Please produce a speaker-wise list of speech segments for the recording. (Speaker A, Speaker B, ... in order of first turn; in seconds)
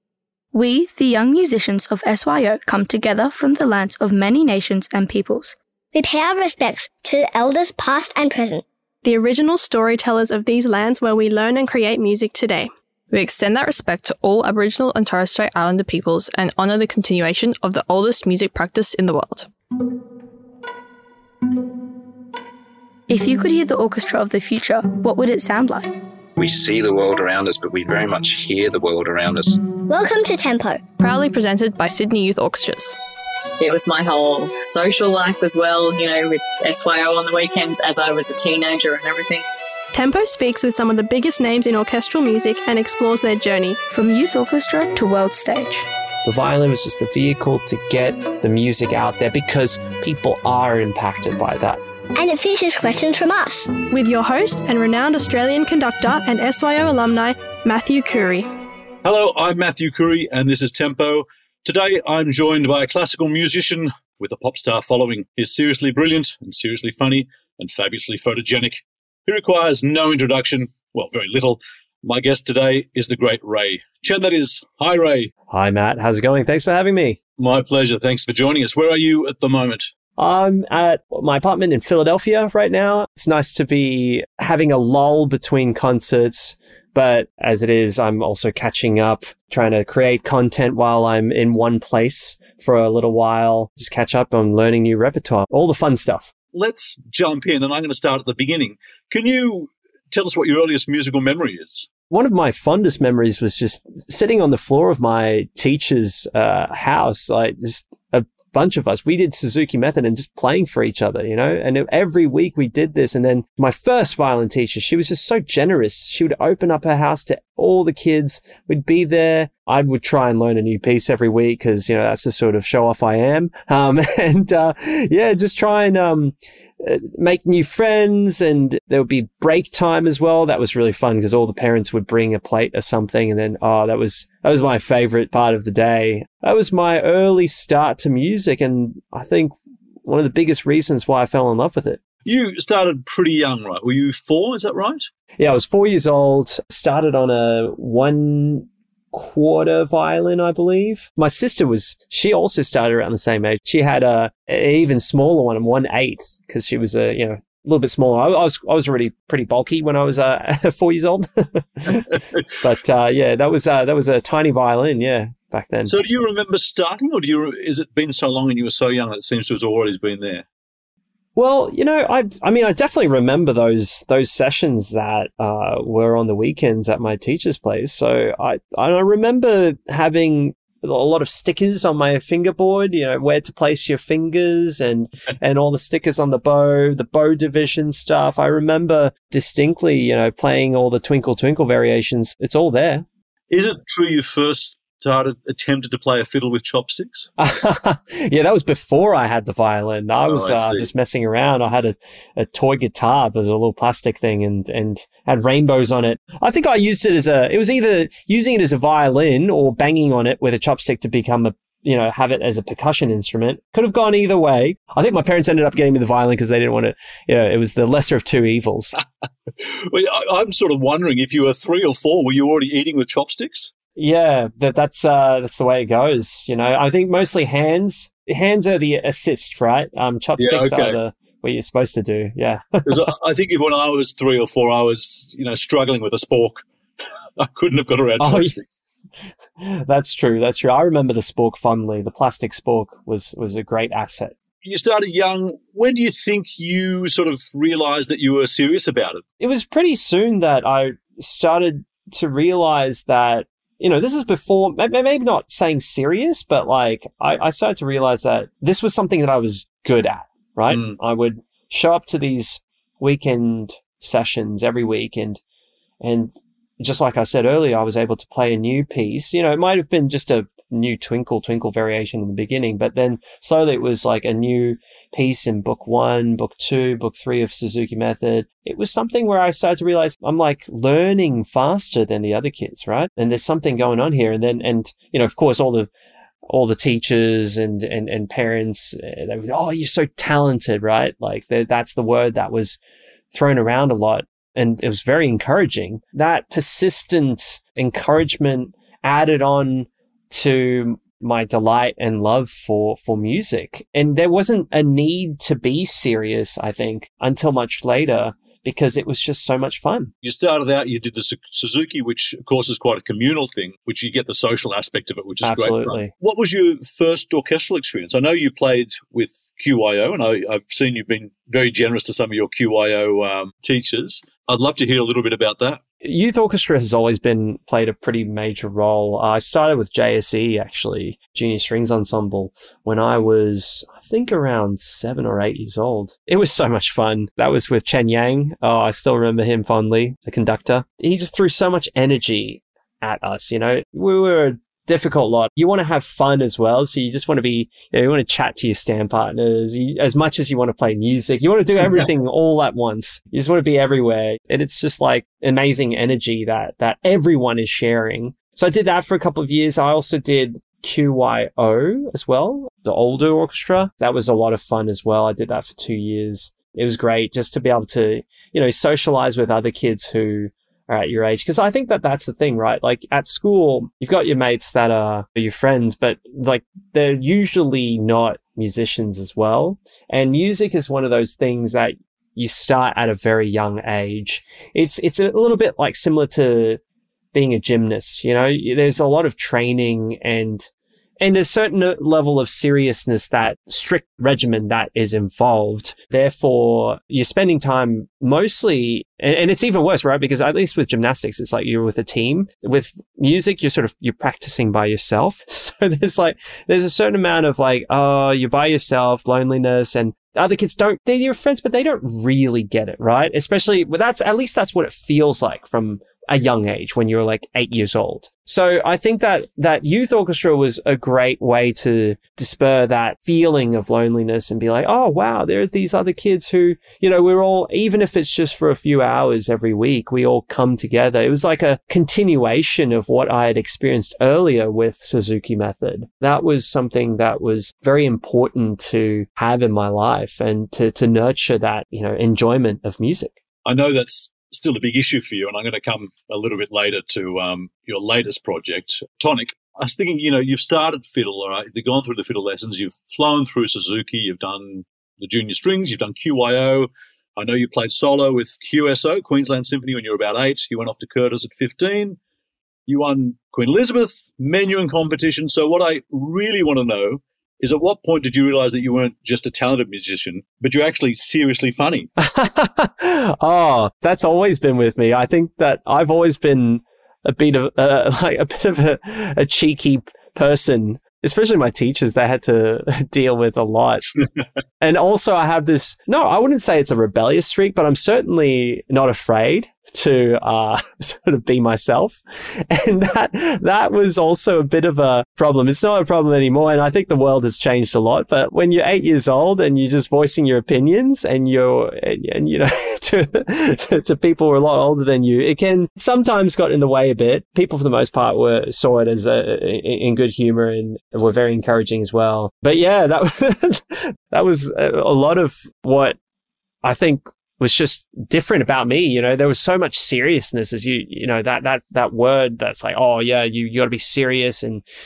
Speaker A: 0.5-5.6, 23.1-25.9, 43.9-45.9
Speaker B: 5.9-8.6, 29.9-30.8, 52.2-53.7
Speaker C: 9.0-12.7, 39.9-43.8, 53.9-58.5
Speaker D: 13.1-19.5, 31.0-33.0
Speaker E: 26.4-29.6
Speaker F: 33.6-39.5
Speaker G: 46.2-51.8, 75.5-77.2, 80.2-96.3, 102.1-142.0, 145.4-165.9, 171.4-193.1, 197.4-218.9, 224.0-233.1, 238.2-238.6, 239.6-244.3, 249.4-265.4, 266.0-285.9, 286.5-292.8, 293.3-310.1, 315.4-316.1, 326.0-386.8, 387.3-390.7, 391.2-443.4, 472.2-484.1, 484.8-516.2, 516.8-524.8
Speaker H: 59.0-75.3, 77.4-79.9, 96.5-101.9, 142.2-145.1, 161.9-162.5, 165.9-170.5, 193.5-197.3, 200.3-200.9, 219.0-223.7, 230.4-231.0, 232.9-236.7, 237.4-238.7, 244.6-249.2, 260.7-261.0, 310.2-325.8, 443.6-462.2, 462.9-472.1